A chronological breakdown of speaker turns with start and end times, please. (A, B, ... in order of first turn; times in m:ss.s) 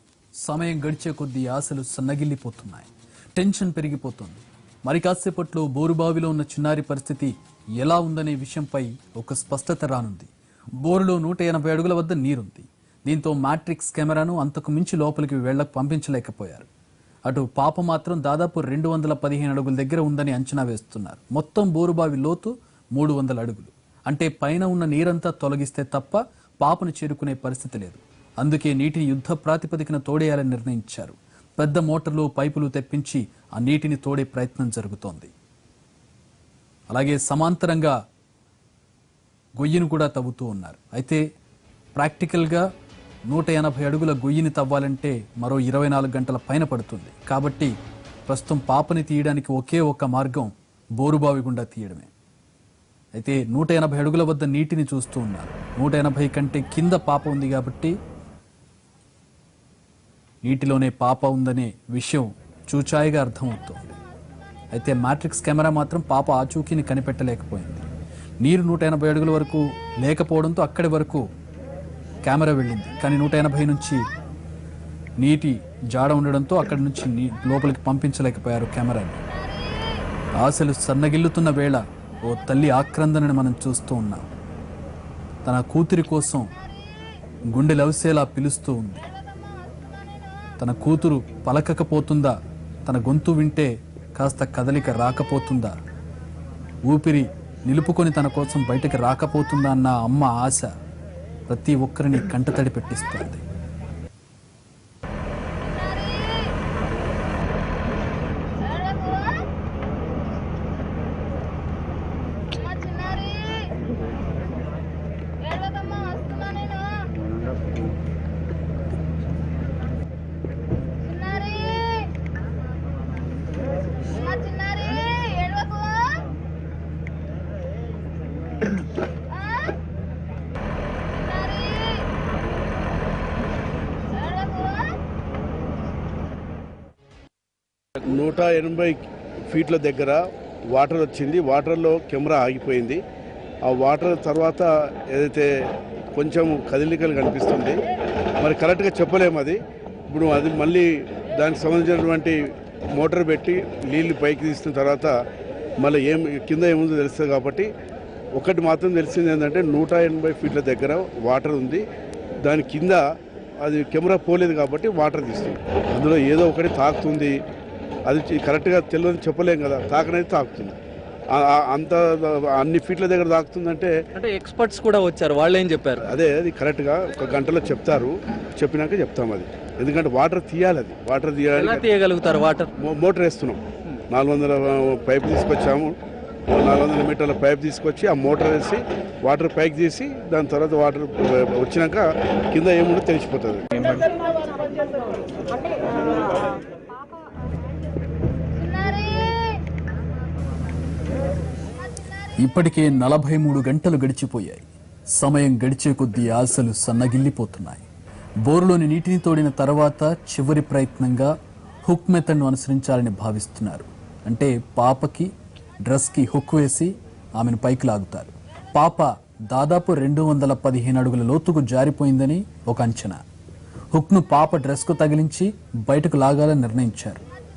0:00.4-0:10.3 A
0:10.8-0:16.7 A
0:17.3-0:35.3 A
0:36.9-0:37.9 A
0:39.6-0:41.2 A
0:41.9-0:42.7 A
0:43.3-0:47.7 A
0:48.3-0:52.1 A
0:53.1-0:57.9 A
1:00.4-1:04.0 A
1:04.7-1:07.8 A
1:08.4-1:11.2 A
1:12.2-1:14.0 A
1:15.2-1:19.2 A
1:20.4-1:24.3 A
1:25.4-1:26.5 A
1:27.5-1:29.0 A
1:30.6-1:32.3 A
1:32.8-1:35.7 A
1:36.9-1:40.7 A
1:41.5-1:43.4 A
1:48.6-1:49.5 B
1:52.6-1:53.7 B
1:55.4-1:57.1 B
2:01.1-2:02.1 B
2:04.2-2:06.2 B
2:11.3-2:12.0 B
2:14.2-2:14.9 B
2:18.0-2:23.0 C
2:23.6-2:27.8 C
2:28.4-2:35.1 C
2:35.8-2:37.7 C
2:38.3-2:41.8 C
2:42.4-2:43.0 C
2:43.6-2:47.4 C
2:48.1-2:50.8 C
2:51.3-2:53.9 C
2:54.1-2:56.0 D
2:56.1-3:01.8 C
3:01.6-3:02.7 D
3:02.8-3:06.0 C
3:06.5-3:14.0 C
3:18.6-3:19.5 B
3:22.4-3:27.8 A
3:28.4-3:31.3 A
3:31.8-3:35.3 A
3:35.8-3:43.2 A
3:43.9-3:47.2 A